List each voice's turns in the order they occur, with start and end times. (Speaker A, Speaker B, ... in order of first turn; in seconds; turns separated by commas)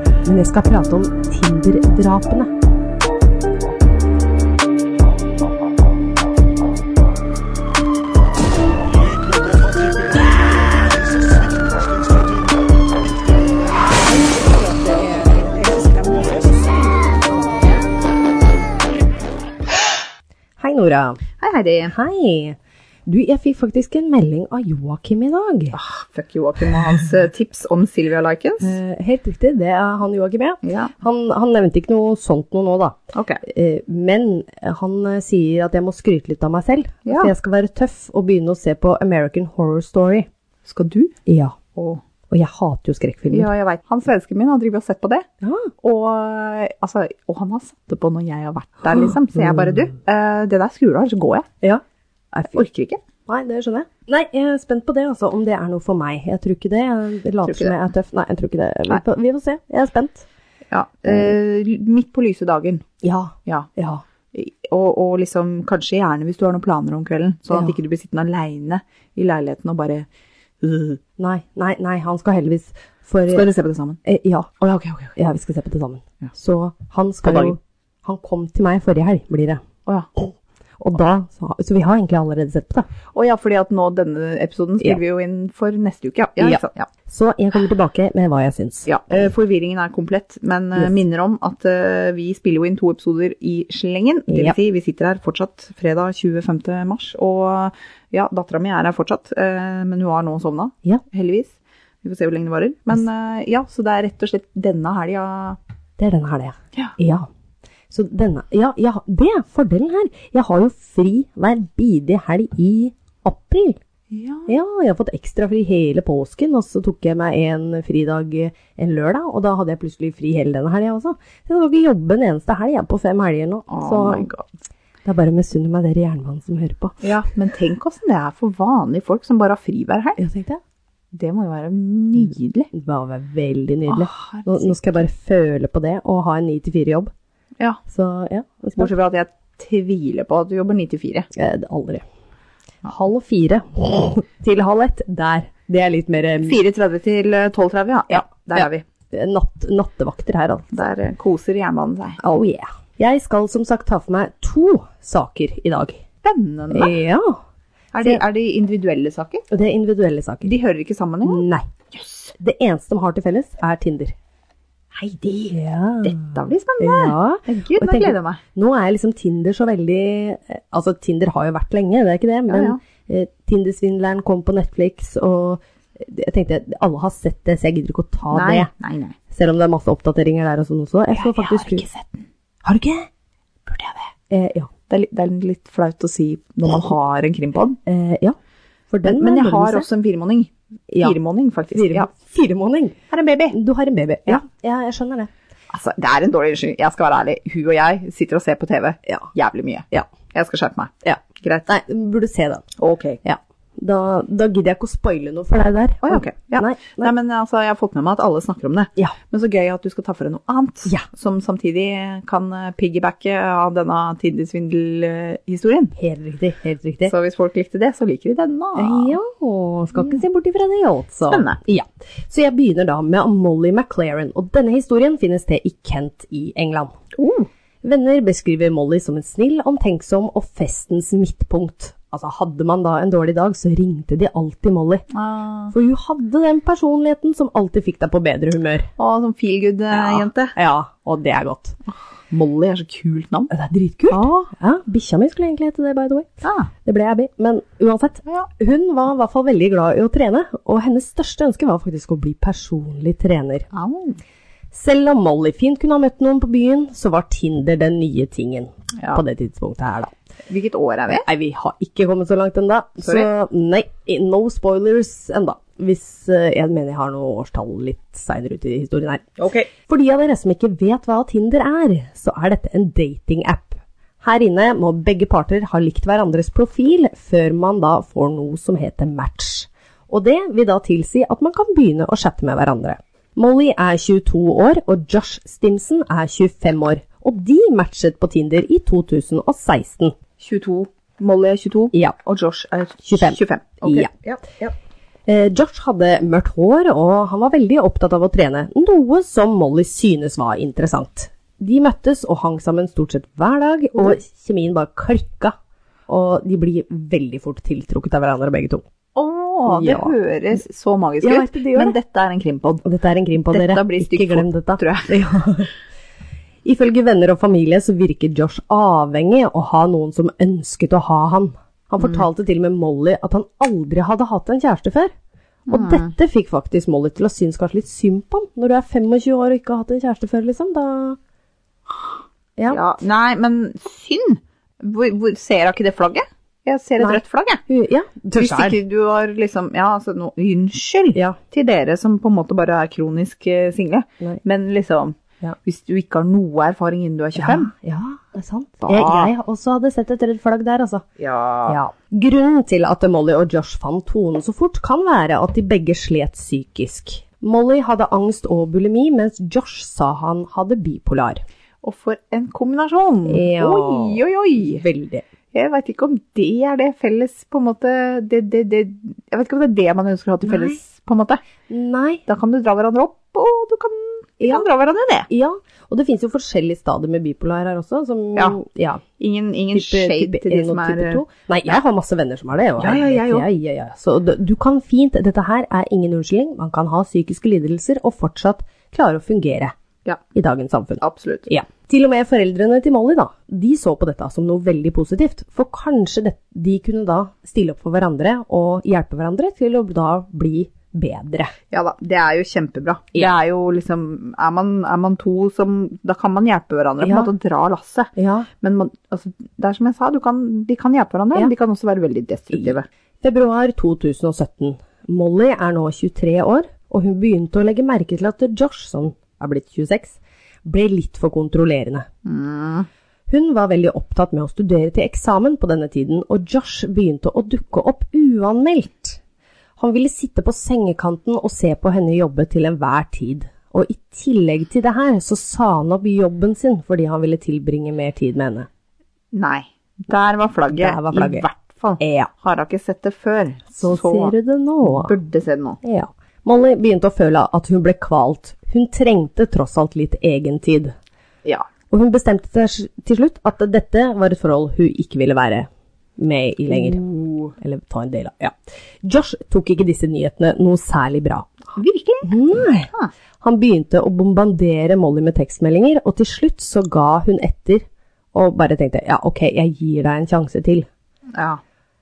Speaker A: 0.2-2.5, Speaker B: 14.1-17.8, Speaker A: 20.6-21.2, Speaker B: 21.4-21.9, Speaker A: 21.9-25.8, Speaker B: 25.7-28.8, Speaker A: 28.6-40.3, Speaker B: 30.6-30.9, Speaker B: 33.1-33.4, Speaker B: 40.6-41.1, Speaker A: 41.3-41.6, Speaker B: 41.8-42.0, Speaker A: 42.3-43.5, Speaker B: 43.3-45.3, Speaker A: 45.4-45.7, Speaker B: 45.8-51.5, Speaker A: 51.6-52.6, Speaker B: 52.5-53.0, Speaker A: 53.3-60.3, Speaker B: 57.5-57.7, Speaker B: 60.7-62.8, Speaker A: 63.0-64.0, Speaker B: 64.3-70.1, Speaker B: 70.6-71.0, Speaker A: 71.2-73.5, Speaker B: 73.3-74.0, Speaker A: 74.0-74.6, Speaker B: 74.6-75.2, Speaker A: 75.2-79.7, Speaker B: 77.2-77.6, Speaker A: 80.2-82.9, Speaker B: 83.1-86.9, Speaker A: 86.4-88.9, Speaker B: 88.9-105.6, Speaker A: 94.3-94.6, Speaker A: 106.0-107.3, Speaker A: 107.9-113.8, Speaker B: 114.1-114.5, Speaker A: 114.5-124.3, Speaker B: 123.7-124.5, Speaker A: 125.0-127.1, Speaker B: 127.0-130.2, Speaker A: 130.2-130.6, Speaker B: 131.1-132.7, Speaker A: 132.7-137.1, Speaker B: 133.9-134.8, Speaker A: 137.9-138.9, Speaker B: 138.8-141.3, Speaker A: 141.3-142.0, Speaker A: 142.8-146.6, Speaker B: 146.4-148.8, Speaker A: 148.6-150.7, Speaker B: 150.7-152.2, Speaker A: 152.2-156.0, Speaker B: 156.2-157.0, Speaker A: 156.7-157.4, Speaker B: 157.9-159.4, Speaker A: 159.5-160.5, Speaker B: 160.4-162.3, Speaker A: 161.2-161.7, Speaker A: 162.4-164.2, Speaker B: 164.9-168.4, Speaker A: 165.5-178.7, Speaker B: 172.5-172.8, Speaker B: 178.3-179.2, Speaker A: 179.3-181.8, Speaker B: 181.1-182.3, Speaker A: 182.7-183.1, Speaker B: 183.7-184.1, Speaker A: 184.3-184.7, Speaker B: 184.9-187.8, Speaker A: 187.9-188.4, Speaker A: 188.9-189.9, Speaker B: 189.0-192.1, Speaker A: 191.7-193.0, Speaker B: 193.1-193.6, Speaker A: 193.5-195.3, Speaker B: 195.7-201.7, Speaker A: 199.1-199.3, Speaker A: 201.0-202.7, Speaker B: 202.8-203.2, Speaker A: 203.2-207.1, Speaker B: 206.0-215.9, Speaker A: 215.9-217.1, Speaker B: 217.1-219.2, Speaker A: 218.8-226.9, Speaker B: 221.3-221.6, Speaker B: 227.2-227.5, Speaker A: 227.8-235.1, Speaker B: 235.1-235.7, Speaker A: 235.7-238.9, Speaker B: 239.0-240.5, Speaker A: 239.9-241.8, Speaker B: 241.9-243.5, Speaker A: 243.5-253.7, Speaker B: 246.4-246.7, Speaker B: 253.7-254.2, Speaker A: 254.7-260.1, Speaker B: 260.5-261.3, Speaker A: 261.1-290.1, Speaker B: 263.0-263.3, Speaker B: 269.4-269.7, Speaker B: 290.4-294.7, Speaker A: 293.0-294.1, Speaker A: 295.3-305.6, Speaker A: 306.1-308.9, Speaker B: 309.1-312.9, Speaker A: 309.7-310.1, Speaker A: 311.2-312.0, Speaker A: 312.9-315.8, Speaker B: 313.5-315.2, Speaker A: 316.6-325.1, Speaker A: 325.7-331.2, Speaker B: 325.7-326.1, Speaker A: 332.6-332.9, Speaker B: 332.7-337.6, Speaker A: 337.0-338.8, Speaker B: 338.3-347.7, Speaker A: 341.1-341.4, Speaker A: 347.4-351.1, Speaker B: 348.8-349.3, Speaker B: 351.2-351.8, Speaker A: 351.7-361.4, Speaker B: 361.8-364.8, Speaker A: 363.3-365.3, Speaker B: 365.5-371.4, Speaker A: 370.4-370.8, Speaker A: 371.7-372.2, Speaker B: 372.3-375.3, Speaker A: 374.4-374.7, Speaker A: 375.3-379.0, Speaker B: 379.2-381.2, Speaker A: 379.7-389.7, Speaker B: 382.8-383.5, Speaker A: 390.3-401.6, Speaker B: 391.0-391.5, Speaker B: 401.7-412.9, Speaker A: 407.0-407.3, Speaker A: 408.2-408.5, Speaker A: 413.2-422.1, Speaker B: 422.2-422.9, Speaker A: 423.3-429.2, Speaker A: 429.8-438.7, Speaker B: 439.3-445.8, Speaker A: 440.7-441.5, Speaker A: 442.0-442.3, Speaker A: 443.8-445.1, Speaker A: 445.8-450.9, Speaker A: 451.9-457.0, Speaker B: 456.7-457.6, Speaker A: 457.6-461.7, Speaker B: 461.8-462.4, Speaker A: 462.2-470.9, Speaker B: 471.3-471.6